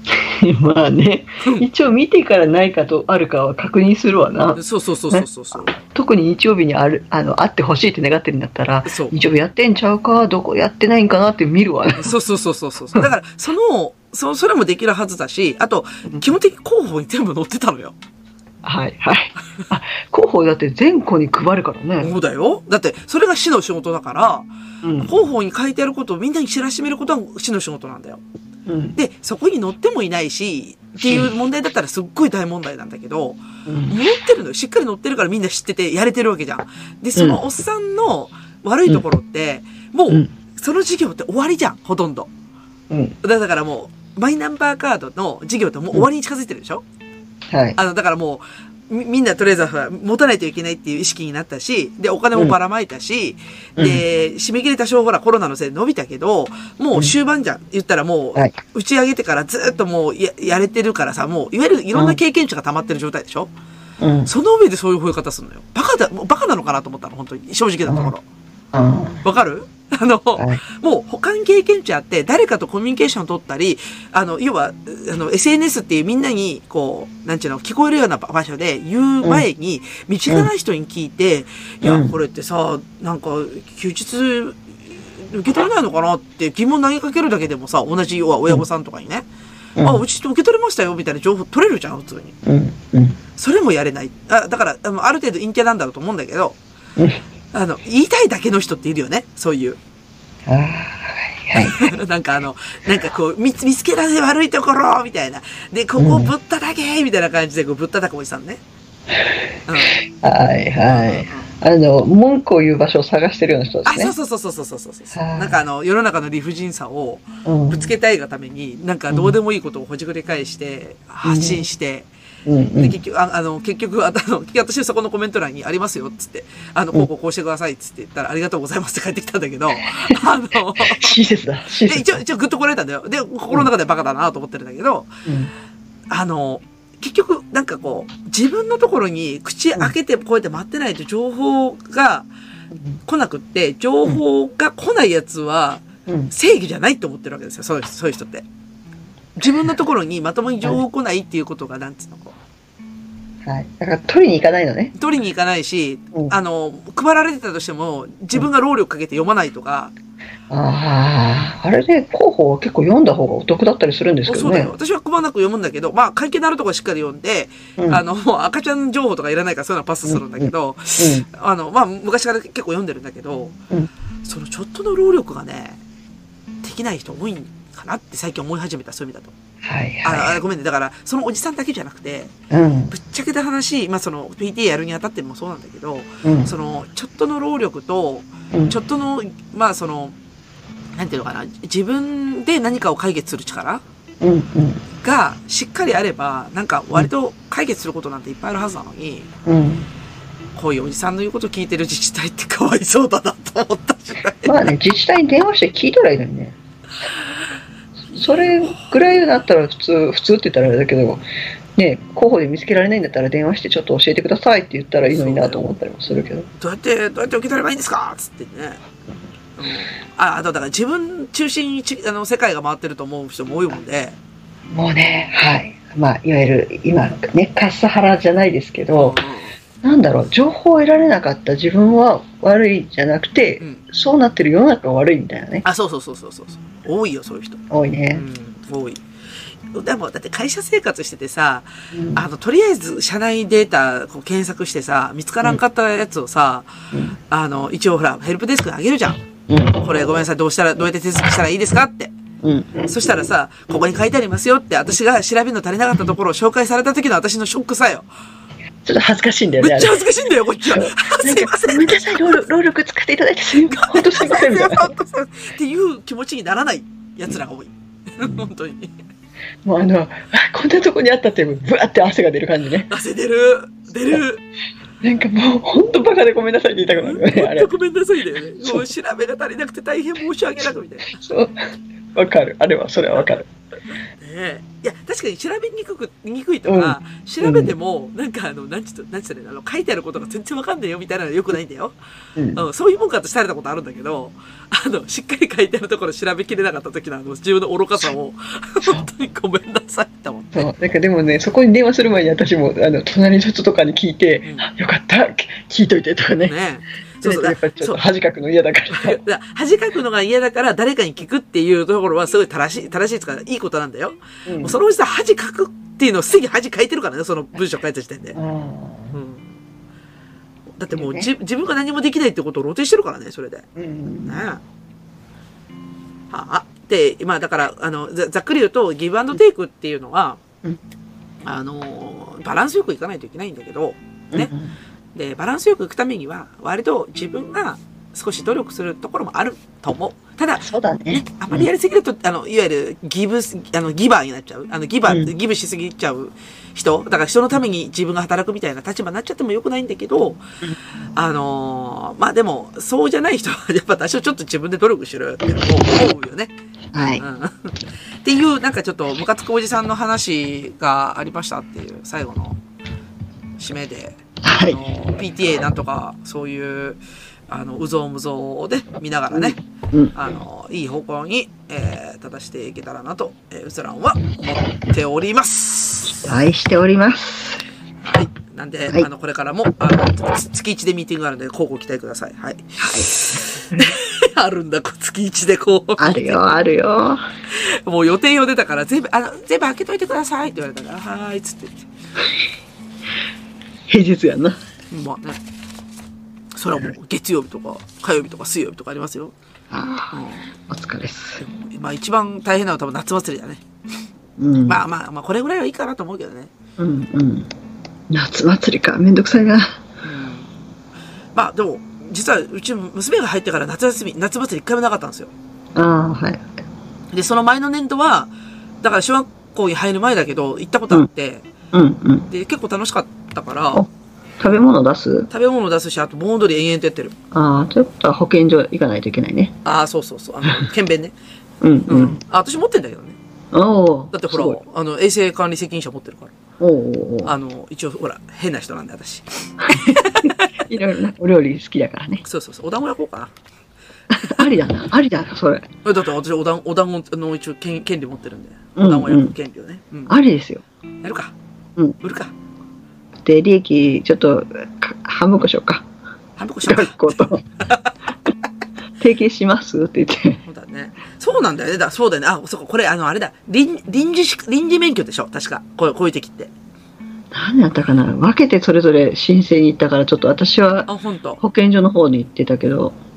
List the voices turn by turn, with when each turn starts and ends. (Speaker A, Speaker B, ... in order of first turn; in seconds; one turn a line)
Speaker A: 0.1-12.1
Speaker B: 1.4-1.6
Speaker B: 4.5-5.7
Speaker B: 8.9-9.1
Speaker B: 12.0-17.9
Speaker A: 18.6-22.1
Speaker B: 22.0-24.5
Speaker A: 24.8-25.1
Speaker B: 25.0-28.2
Speaker A: 28.7-29.0
Speaker B: 28.9-42.3
Speaker A: 31.0-31.3
Speaker A: 33.6-34.0
Speaker A: 42.9-43.1
Speaker B: 43.2-46.8
Speaker A: 47.5-47.8
Speaker B: 47.8-63.5
Speaker A: 53.8-54.0
Speaker A: 64.0-64.3
Speaker B: 64.2-68.2
Speaker A: 67.9-68.1
Speaker A: 68.7-69.2
Speaker B: 69.2-84.6
Speaker A: 81.8-82.1
Speaker B: 85.1-89.2
Speaker A: 89.8-90.0
Speaker B: 89.8-92.3
Speaker A: 92.4-93.2
Speaker B: 93.4-96.6
Speaker B: 97.5-99.8
Speaker A: 100.5-101.9
Speaker B: 101.5-108.6
Speaker A: 106.0-106.3
Speaker A: 109.1-109.4
Speaker B: 109.7-110.0
Speaker A: 109.9-114.1
Speaker B: 110.9-111.5
Speaker B: 113.8-122.1
Speaker A: 115.1-115.6
Speaker A: 117.4-117.9
Speaker A: 119.1-119.3
Speaker A: 121.2-121.6
Speaker A: 122.5-123.0
Speaker B: 122.8-131.1
Speaker A: 130.8-132.2
Speaker B: 131.8-135.1
Speaker A: 135.2-135.5
Speaker B: 136.1-142.3
Speaker B: 143.1-148.4
Speaker A: 146.1-146.3
Speaker B: 149.4-152.3
Speaker A: 153.4-154.9
Speaker B: 154.9-159.9
Speaker A: 160.5-164.7
Speaker B: 164.2-173.6
Speaker A: 167.8-168.0
Speaker A: 170.1-171.2
Speaker B: 174.2-175.8
Speaker B: 176.6-179.3
Speaker A: 179.6-180.4
Speaker B: 180.0-182.3
Speaker A: 182.5-182.9
Speaker B: 182.9-190.2
Speaker A: 186.2-186.5
Speaker B: 190.9-193.8
Speaker A: 194.2-194.8
Speaker B: 195.0-199.3
Speaker A: 199.4-199.9
Speaker B: 200.6-204.7
Speaker A: 204.4-206.6
Speaker B: 208.1-208.9
Speaker A: 208.1-216.5
Speaker B: 215.1-215.6
Speaker B: 216.5-218.8
Speaker B: 219.6-224.2
Speaker A: 224.7-229.2
Speaker B: 228.9-229.6
Speaker A: 229.8-235.6
Speaker B: 235.6-237.6
Speaker A: 237.7-238.2
Speaker B: 238.1-239.0
Speaker B: 239.7-249.2
Speaker A: 241.9-242.2
Speaker A: 246.9-247.2
Speaker A: 249.5-249.8
Speaker B: 249.8-252.1
Speaker A: 252.4-252.9
Speaker B: 252.8-258.1
Speaker A: 258.8-260.0
Speaker B: 259.6-262.4
Speaker A: 260.7-264.9
Speaker B: 263.7-268.9
Speaker A: 269.6-272.9
Speaker B: 272.9-274.4
Speaker A: 275.0-277.7
Speaker B: 276.9-281.2
Speaker A: 278.6-278.9
Speaker A: 281.1-283.5
Speaker B: 284.2-291.9
Speaker A: 286.7-287.7
Speaker A: 292.4-292.6
Speaker B: 292.5-300.7
Speaker A: 298.8-299.1
Speaker A: 300.5-306.5
Speaker B: 304.4-304.7
Speaker B: 306.4-308.0
Speaker A: 307.2-309.2
Speaker B: 308.9-318.4
Speaker A: 314.4-314.8
Speaker A: 318.3-319.1
Speaker B: 319.1-319.5
Speaker B: 320.8-323.6
Speaker A: 320.9-321.3
Speaker A: 323.8-324.4
Speaker B: 324.2-324.6
Speaker B: 326.3-330.4
Speaker B: 331.4-334.5
Speaker A: 334.3-334.7
Speaker B: 335.1-350.4
Speaker A: 340.6-341.7
Speaker B: 351.1-356.5
Speaker A: 356.9-357.2
Speaker B: 357.2-362.6
Speaker B: 363.6-369.6
Speaker A: 364.4-364.8
Speaker A: 369.3-370.1
Speaker B: 370.1-376.3
Speaker A: 376.1-377.6
Speaker B: 378.0-386.5
Speaker A: 382.8-383.1
Speaker A: 386.0-387.2
Speaker B: 387.5-391.9
Speaker A: 393.9-394.6
Speaker B: 394.9-395.4
Speaker B: 396.5-399.3
Speaker A: 399.7-401.4
Speaker B: 400.1-400.5
Speaker B: 401.4-403.6
Speaker A: 404.4-404.8
Speaker B: 404.6-406.5
Speaker A: 406.8-407.5
Speaker A: 408.1-409.8
Speaker B: 410.0-410.5
Speaker B: 411.3-415.3
Speaker A: 415.7-416.5
Speaker B: 417.1-418.3
Speaker B: 418.8-421.4
Speaker A: 421.7-422.3
Speaker B: 422.3-423.8
Speaker A: 424.4-425.3
Speaker B: 425.3-427.1
Speaker A: 427.3-429.6
Speaker B: 429.6-431.1
Speaker A: 431.6-432.2
Speaker B: 431.9-433.2
Speaker A: 433.5-434.6
Speaker B: 434.1-436.3
Speaker A: 436.6-437.3
Speaker B: 437.2-440.6
Speaker A: 439.7-442.2
Speaker B: 442.2-443.3
Speaker A: 444.1-445.7
Speaker B: 445.8-450.1
Speaker A: 448.8-449.3
Speaker A: 450.1-450.6
Speaker B: 451.0-451.3
Speaker B: 452.0-452.3
Speaker A: 453.2-455.9
Speaker B: 456.4-457.9
Speaker A: 456.6-457.4
Speaker A: 459.0-460.4
Speaker B: 460.4-466.5
Speaker A: 467.3-472.9
Speaker B: 470.9-471.4